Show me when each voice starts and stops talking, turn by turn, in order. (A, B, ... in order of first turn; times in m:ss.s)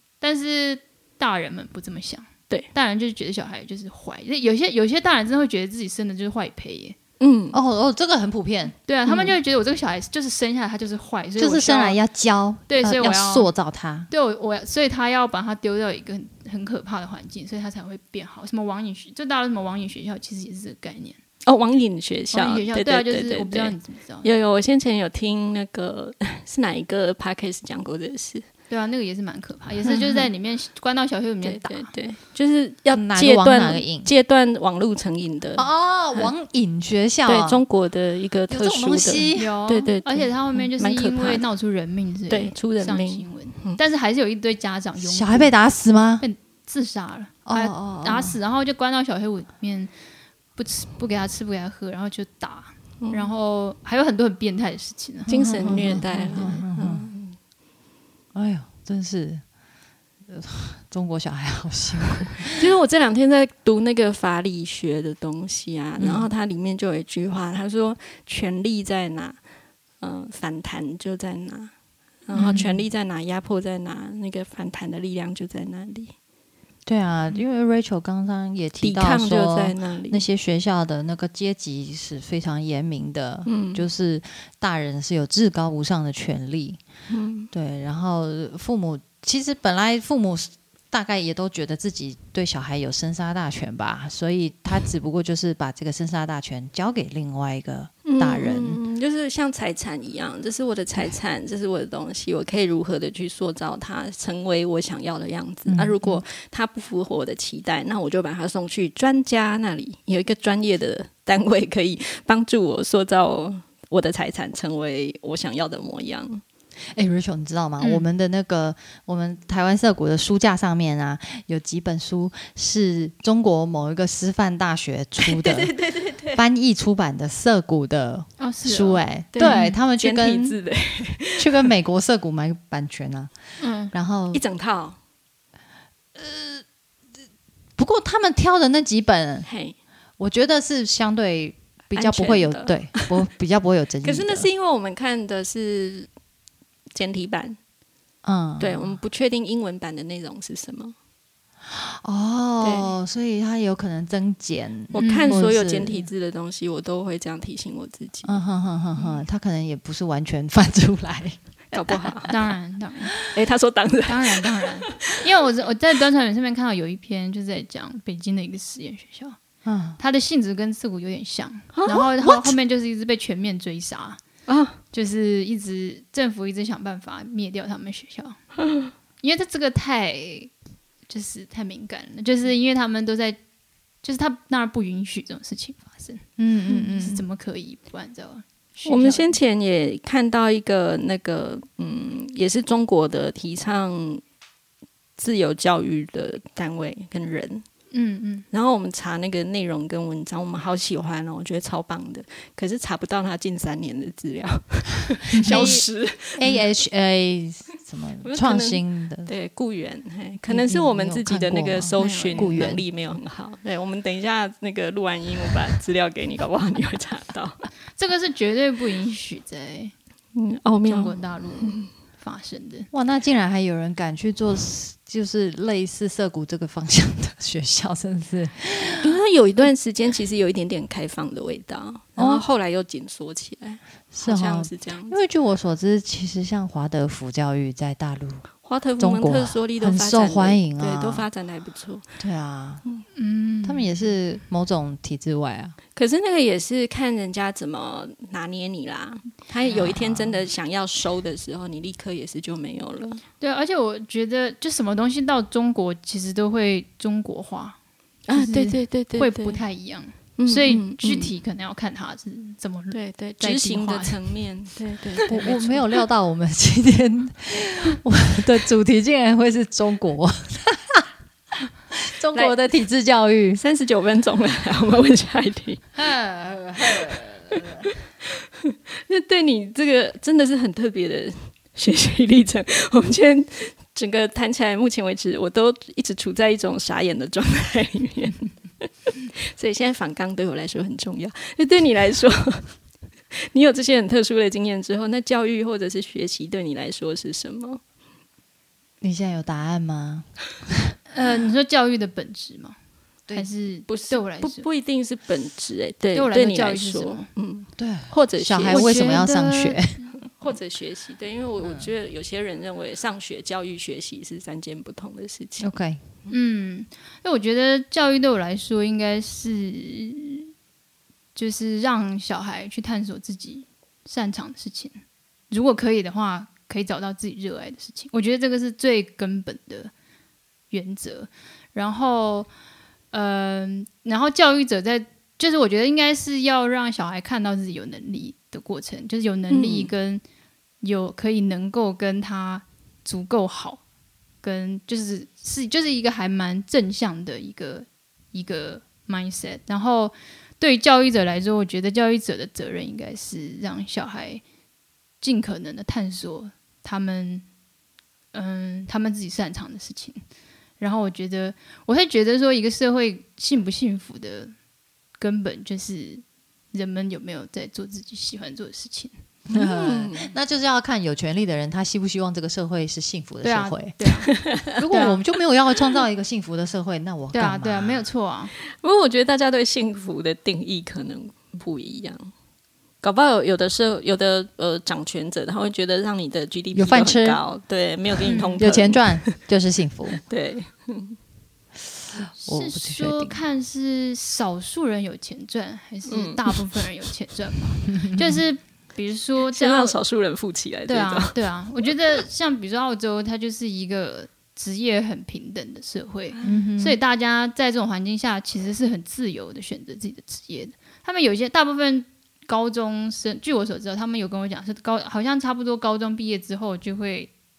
0:00.2-0:07.0 A
0:07.2-0:07.6 B
0:07.5-0:08.8 C
0:08.9-0:12.0 A
0:09.1-0:09.3 B
0:11.4-0:14.1 C
0:12.7-0:13.5 A
0:14.1-0:21.2 A
0:21.4-0:28.5 B
0:22.3-0:24.3 A
0:28.7-0:31.9 A
0:29.8-0:30.3 B
0:31.4-0:36.3 B
0:32.9-0:34.1 C
0:35.6-0:37.6 C
0:37.3-0:41.4 B
0:38.5-0:39.6 C
0:39.4-0:45.5 A
0:42.3-0:43.8 B
0:45.0-0:46.2 C
0:46.2-0:49.9 A
0:47.5-0:48.4 C
0:50.6-0:56.6 A
0:53.0-0:53.3 B
0:55.3-0:57.4 B
0:55.4-0:57.1 C
0:58.3-0:59.4 C
1:00.3-1:02.6 C
1:02.5-1:09.4 B
1:06.0-1:06.3 C
1:10.0-1:11.7 B
1:12.3-1:16.1 B
1:12.4-1:12.7 A
1:12.4-1:12.8 C
1:16.9-1:26.8 C
1:18.8-1:20.2 B
1:23.5-1:23.8 B
1:27.1-1:27.5 B
1:27.5-1:38.8 C
1:38.1-1:56.4 B
1:45.7-1:46.2 C
1:56.9-2:10.6 C
2:05.2-2:06.4 B
2:08.4-2:09.8 A
2:09.4-2:11.7 B
2:11.4-2:13.3 C
2:13.6-2:13.9 A
2:13.9-2:14.4 C
2:14.3-2:15.0 B
2:16.2-2:16.6 C
2:17.8-2:19.5 C
2:19.5-2:19.8 B
2:20.2-2:24.5 C
2:21.9-2:23.2 B
2:24.0-2:26.1 B
2:26.9-2:27.6 B
2:28.2-2:29.0 C
2:28.6-2:31.0 B
2:31.7-2:36.1 C
2:32.6-2:32.9 B
2:34.9-2:38.4 B
2:35.0-2:35.5 A
2:38.2-2:42.3 C
2:41.7-2:42.4 B
2:42.3-2:43.2 A
2:43.2-2:45.1 B
2:44.1-2:49.4 A
2:49.6-2:50.0 C
2:50.0-2:54.2 A
2:51.7-2:52.6 B
2:54.5-2:54.8 B
2:54.9-2:58.4 A
2:59.2-3:00.5 A
3:01.1-3:03.4 A
3:04.0-3:09.3 A
3:06.4-3:07.2 C
3:08.8-3:14.2 B
3:15.2-3:17.6 B
3:17.9-3:18.5 A
3:18.5-3:26.6 B
3:25.3-3:25.8 A
3:25.4-3:29.3 C
3:28.2-3:37.7 B
3:30.5-3:32.8 C
3:32.0-3:32.7 A
3:38.0-3:39.9 A
3:40.4-3:41.9 B
3:40.9-3:42.9 A
3:42.9-3:49.2 C
3:49.0-3:55.2 B
3:52.2-3:52.5 C
3:54.1-4:01.3 C
3:58.6-4:02.1 B
4:02.2-4:02.8 C
4:03.1-4:04.1 A
4:03.6-4:05.8 C
4:06.0-4:13.2 B
4:09.7-4:10.4 C
4:13.4-4:17.8 A
4:18.3-4:19.6 B
4:18.3-4:24.3 A
4:20.4-4:21.3 B
4:22.9-4:25.8 B
4:25.3-4:31.1 C
4:31.9-4:33.6 C
4:33.6-4:35.8 B
4:36.0-4:37.9 C
4:38.6-4:48.9 B
4:49.4-4:52.8 B
4:53.5-4:57.8 B
4:59.0-5:00.7 C
5:01.1-5:02.8 A
5:03.3-5:04.7 A
5:03.9-5:15.7 B
5:06.1-5:07.3 A
5:07.8-5:10.1 C
5:08.7-5:09.2 A
5:11.6-5:11.9 C
5:15.6-5:16.0 C
5:16.3-5:20.5 A
5:21.4-5:25.0 A
5:25.5-5:29.9 A
5:30.7-5:32.5 A
5:33.1-5:40.2 A
5:39.5-5:39.9 B
5:40.8-5:43.8 A
5:44.4-5:54.4 A
5:55.2-5:57.4 A
5:58.3-6:00.2 A
6:00.8-6:04.5 A
6:05.2-6:09.1 A
6:09.5-6:18.1 C
6:09.5-6:10.3 B
6:13.4-6:15.2 A
6:17.3-6:18.5 A
6:18.7-6:22.3 B
6:23.0-6:29.4 B
6:26.7-6:27.4 C
6:28.2-6:28.6 A
6:28.6-6:30.2 C
6:30.2-6:31.2 B
6:32.2-6:33.4 C
6:32.4-6:40.0 A
6:36.1-6:36.9 B
6:39.5-6:41.9 B
6:40.9-6:57.3 A
6:46.4-6:46.7 B
6:46.4-6:47.0 C